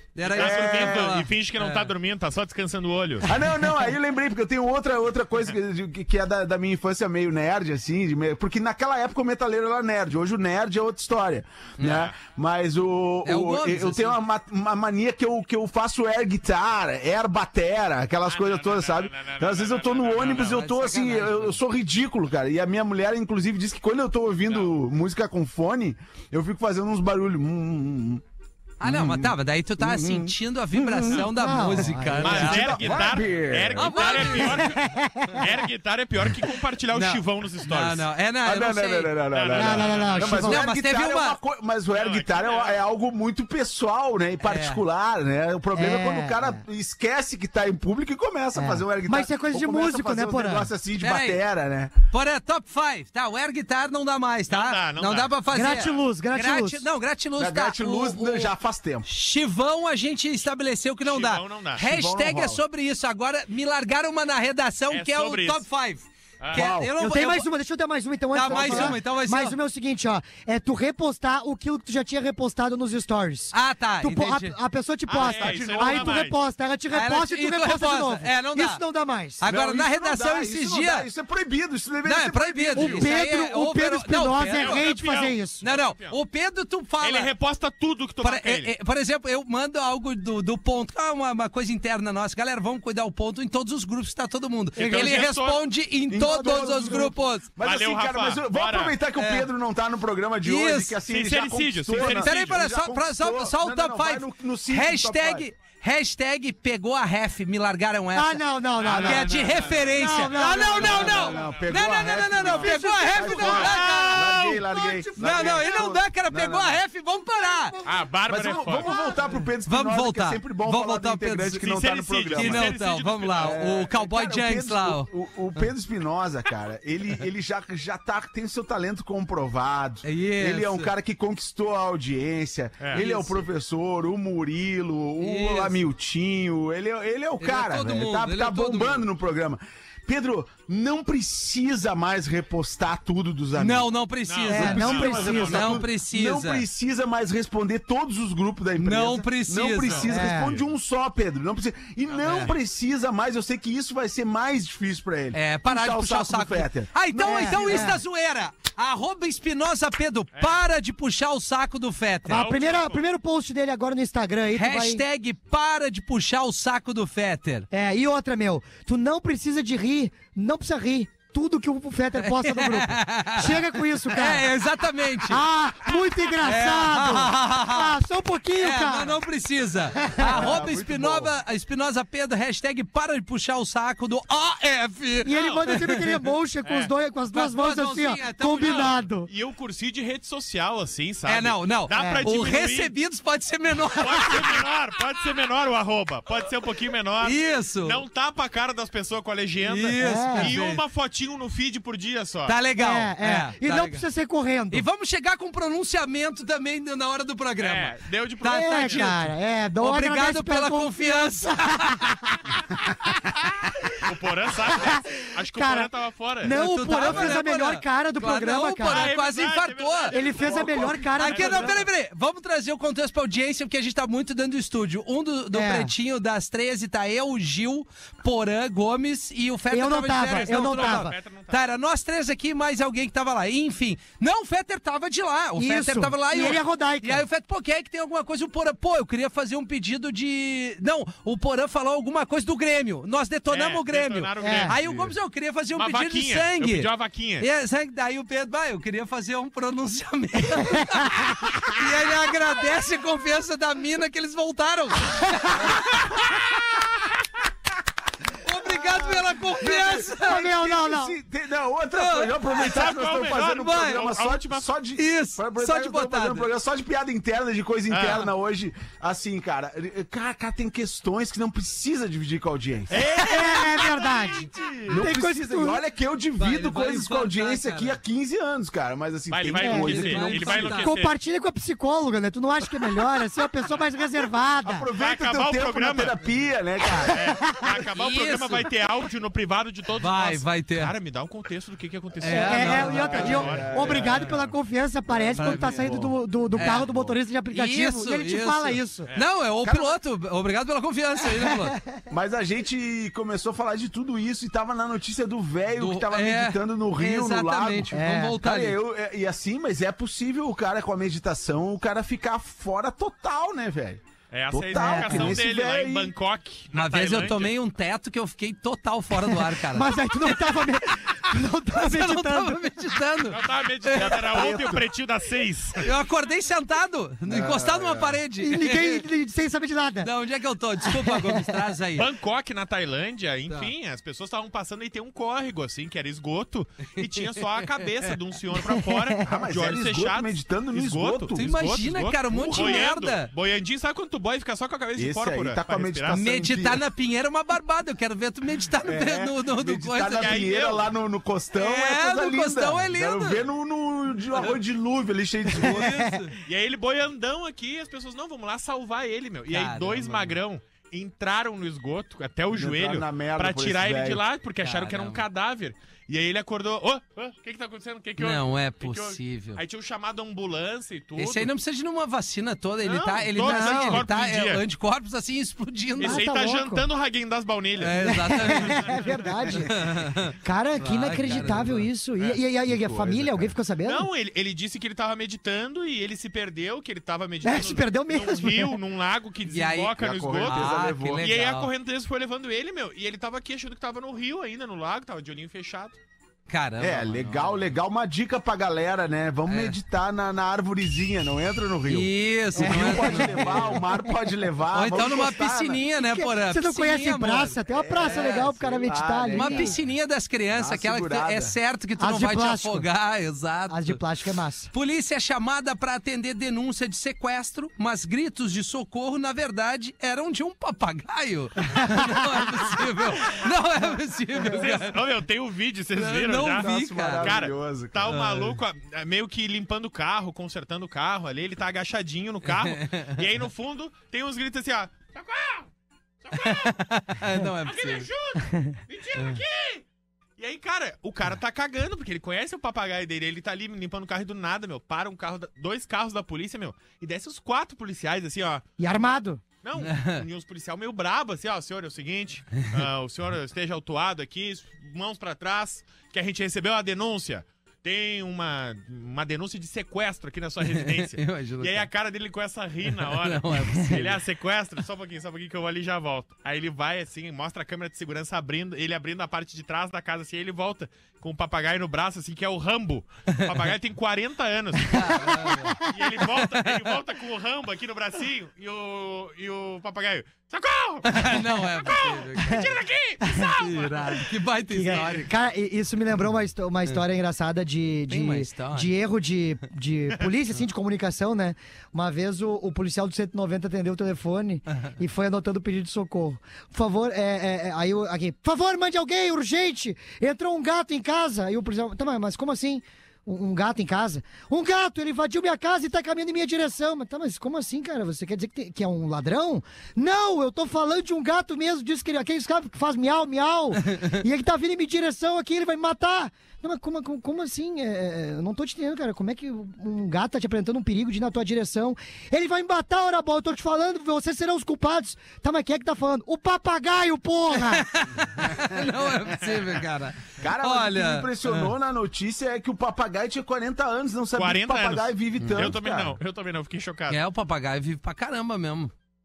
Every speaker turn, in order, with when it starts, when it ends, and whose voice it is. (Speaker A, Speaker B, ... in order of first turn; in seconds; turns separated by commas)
Speaker A: 0.1-1.9, Speaker B: 0.2-3.3, Speaker C: 0.3-1.1, Speaker C: 3.2-28.2, Speaker A: 11.8-12.1, Speaker B: 11.8-12.1, Speaker A: 13.2-14.2, Speaker B: 18.2-20.6, Speaker A: 20.3-21.6, Speaker B: 24.5-24.7, Speaker A: 28.8-33.1, Speaker C: 28.8-34.5, Speaker D: 31.2-32.4, Speaker B: 32.2-38.1, Speaker A: 33.8-34.7, Speaker D: 34.4-35.5, Speaker A: 36.9-39.1, Speaker C: 38.4-51.9, Speaker B: 39.3-40.5, Speaker D: 39.5-40.7, Speaker A: 40.3-41.4, Speaker B: 41.9-42.8, Speaker A: 44.4-44.8, Speaker D: 45.7-46.6, Speaker D: 48.5-50.7, Speaker A: 51.0-51.4, Speaker A: 52.1-58.5, Speaker B: 54.5-56.0, Speaker D: 55.5-56.8, Speaker C: 57.4-59.1, Speaker A: 59.0-67.5, Speaker B: 61.0-61.8, Speaker C: 61.8-62.6, Speaker B: 64.9-65.6, Speaker B: 66.4-66.7, Speaker C: 66.5-66.9, Speaker D: 67.0-79.4, Speaker A: 68.3-69.5, Speaker C: 68.5-69.0, Speaker A: 73.5-74.5, Speaker B: 75.1-76.4, Speaker C: 75.2-76.2, Speaker A: 76.9-78.8, Speaker A: 79.4-81.1, Speaker C: 79.4-83.1, Speaker A: 82.0-84.9, Speaker D: 82.8-85.6, Speaker B: 84.5-86.2, Speaker A: 85.6-87.3, Speaker B: 87.0-88.7, Speaker A: 88.2-97.5, Speaker B: 94.8-95.6, Speaker D: 94.8-95.1, Speaker C: 96.1-105.5, Speaker B: 97.6-99.0, Speaker A: 99.2-99.5, Speaker A: 100.4-101.0, Speaker B: 101.1-102.6, Speaker A: 102.0-114.6, Speaker D: 108.1-111.5, Speaker B: 108.8-111.7, Speaker C: 108.9-109.4, Speaker C: 110.7-116.8, Speaker D: 112.0-115.9, Speaker B: 113.8-114.0, Speaker A: 115.2-117.8, Speaker D: 117.4-118.0, Speaker B: 117.8-119.0, Speaker C: 118.3-122.8, Speaker D: 118.9-119.2, Speaker A: 119.7-121.6, Speaker B: 121.6-123.6, Speaker A: 122.3-125.7, Speaker C: 123.4-143.9, Speaker A: 130.0-130.9, Speaker A: 132.9-133.4, Speaker A: 135.2-135.8, Speaker A: 137.4-139.1, Speaker A: 143.6-146.7, Speaker B: 144.3-145.7, Speaker C: 144.5-158.0, Speaker D: 144.5-145.8, Speaker A: 148.8-150.1, Speaker B: 149.8-150.1, Speaker D: 150.1-150.6, Speaker A: 155.3-162.5, Speaker D: 157.2-158.0, Speaker D: 162.2-165.0, Speaker B: 162.3-163.0, Speaker A: 164.5-167.7, Speaker D: 167.7-174.5, Speaker A: 172.2-175.4, Speaker D: 175.3-179.2, Speaker A: 176.4-178.0, Speaker A: 178.6-186.2, Speaker D: 180.0-180.6, Speaker C: 180.2-181.3, Speaker D: 185.2-189.3, Speaker B: 185.3-185.6, Speaker B: 186.6-186.9, Speaker A: 187.3-189.0, Speaker B: 188.6-192.9, Speaker A: 191.2-194.6, Speaker D: 191.9-192.2, Speaker B: 193.9-202.6, Speaker A: 197.2-198.0, Speaker A: 199.6-200.8, Speaker D: 200.0-200.5, Speaker A: 202.5-204.1, Speaker D: 202.8-204.8, Speaker A: 204.7-212.1, Speaker B: 207.6-209.2, Speaker D: 208.4-213.3, Speaker B: 214.0-217.4, Speaker D: 214.7-215.9, Speaker D: 216.4-219.1, Speaker A: 216.5-255.8, Speaker B: 218.9-221.9, Speaker D: 220.1-221.8, Speaker D: 225.5-225.9, Speaker D: 229.7-231.1, Speaker B: 230.3-231.6, Speaker D: 235.6-237.2, Speaker B: 243.5-245.0, Speaker D: 244.4-244.8, Speaker B: 245.8-247.5, Speaker D: 250.5-251.7, Speaker A: 258.4-260.5, Speaker C: 258.8-273.0, Speaker D: 260.2-261.1, Speaker A: 261.9-262.9, Speaker B: 262.5-264.7, Speaker A: 263.6-264.1, Speaker A: 265.0-266.5, Speaker B: 267.9-268.3, Speaker B: 272.9-275.1, Speaker A: 272.9-273.8, Speaker D: 273.1-275.8, Speaker C: 274.9-280.7, Speaker A: 276.4-278.0, Speaker B: 279.3-281.1, Speaker D: 279.6-284.9, Speaker A: 279.8-280.9, Speaker C: 284.6-287.2, Speaker B: 285.0-286.1, Speaker D: 287.1-287.8, Speaker B: 287.1-294.4, Speaker A: 287.9-288.7, Speaker A: 290.0-290.9, Speaker A: 292.2-293.6, Speaker D: 292.3-299.1, Speaker C: 293.2-294.4, Speaker C: 295.1-297.2, Speaker A: 295.4-296.9, Speaker A: 297.5-301.8, Speaker C: 299.6-300.0, Speaker D: 301.4-301.7, Speaker C: 302.1-316.1, Speaker A: 305.7-308.8, Speaker D: 307.9-308.4, Speaker B: 314.3-317.6, Speaker D: 314.8-315.4, Speaker A: 316.7-320.5, Speaker D: 319.3-322.7, Speaker A: 321.7-324.6, Speaker B: 323.3-325.9, Speaker C: 323.9-324.9, Speaker A: 325.8-329.1, Speaker C: 327.3-328.2, Speaker D: 328.4-330.1, Speaker A: 330.0-332.1, Speaker D: 330.8-331.6, Speaker B: 331.9-346.2, Speaker A: 337.0-338.1, Speaker D: 338.6-339.2, Speaker C: 339.2-341.4, Speaker A: 341.4-343.3, Speaker C: 342.4-342.8, Speaker C: 344.9-346.9, Speaker A: 346.1-350.4, Speaker C: 348.8-356.1, Speaker B: 350.1-350.9, Speaker A: 351.6-353.5, Speaker A: 355.5-356.4, Speaker D: 355.6-356.1, Speaker B: 356.4-371.5, Speaker A: 359.5-360.4, Speaker C: 362.5-364.2, Speaker A: 364.6-365.2, Speaker A: 368.2-369.6, Speaker A: 371.2-376.2, Speaker B: 372.8-374.6, Speaker D: 373.4-374.0, Speaker B: 376.0-379.1, Speaker D: 376.0-376.9, Speaker A: 377.8-381.9, Speaker D: 378.0-384.1, Speaker C: 382.6-383.6, Speaker B: 383.8-396.0, Speaker D: 387.4-388.8, Speaker A: 389.5-391.7, Speaker C: 390.0-391.4, Speaker A: 396.5-397.6, Speaker C: 396.8-405.8, Speaker A: 399.5-399.8, Speaker A: 401.9-403.8, Speaker D: 402.6-404.1, Speaker A: 404.7-408.4, Speaker D: 406.1-409.8, Speaker C: 407.7-409.8, Speaker A: 409.3-414.0, Speaker C: 410.5-411.6, Speaker D: 412.0-412.9, Speaker D: 413.7-414.7, Speaker A: 414.7-425.0, Speaker D: 421.7-422.3, Speaker B: 424.4-435.7, Speaker A: 425.9-427.4, Speaker C: 426.4-428.0, Speaker A: 428.1-428.6, Speaker A: 432.4-433.2, Speaker B: 436.2-436.8, Speaker A: 436.3-438.1, Speaker B: 437.6-439.8, Speaker D: 438.5-438.7, Speaker A: 439.1-439.4, Speaker B: 440.4-484.3, Speaker D: 448.8-449.4, Speaker A: 449.8-450.2, Speaker A: 460.6-461.9, Speaker A: 462.9-464.2, Speaker A: 474.9-475.8, Speaker A: 476.4-476.9, Speaker A: 481.1-482.7, Speaker D: 483.2-483.6, Speaker A: 483.6-485.3, Speaker D: 484.7-527.9, Speaker A: 488.1-488.9, Speaker A: 527.6-531.7, Speaker C: 528.6-528.9, Speaker C: 530.4-536.2, Speaker B: 534.4-537.2, Speaker A: 535.4-535.7, Speaker A: 537.1-538.9